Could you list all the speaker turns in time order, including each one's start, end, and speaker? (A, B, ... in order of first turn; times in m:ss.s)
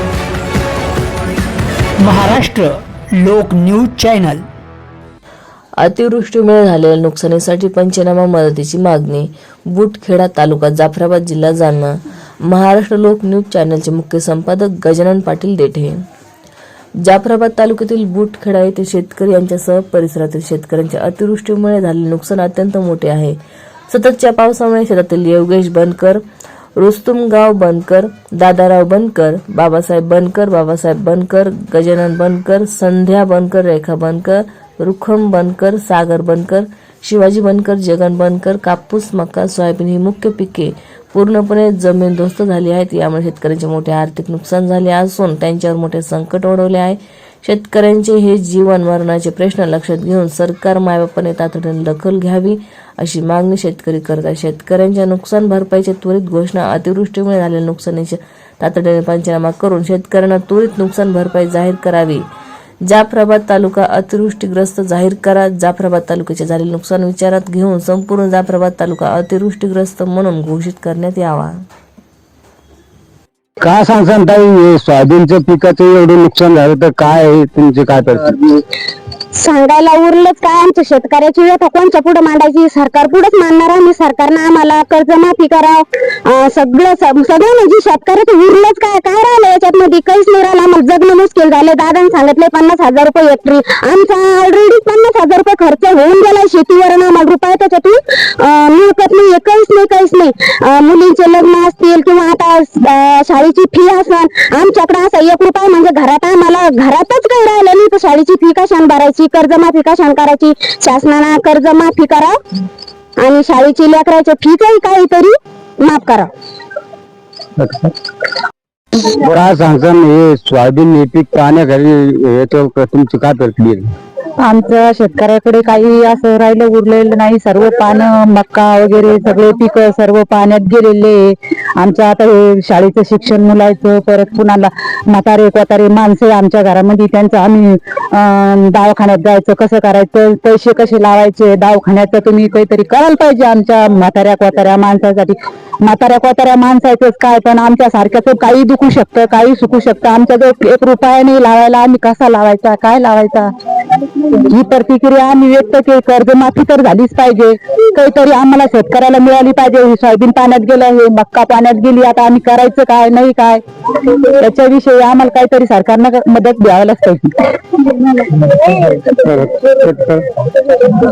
0:02.0-0:04.5 A
0:05.8-0:16.0 B
0:17.0-0:26.2 B
0:26.8-1:02.3 B
1:02.9-1:11.6 B
1:13.6-1:18.6 C
1:19.3-1:52.4 D
1:53.2-1:56.3 D
1:57.6-1:57.9 C
1:59.0-2:03.9 C
2:04.4-2:33.5 E
2:34.5-2:43.6 E
2:44.2-2:47.6 E
2:48.8-2:50.3 C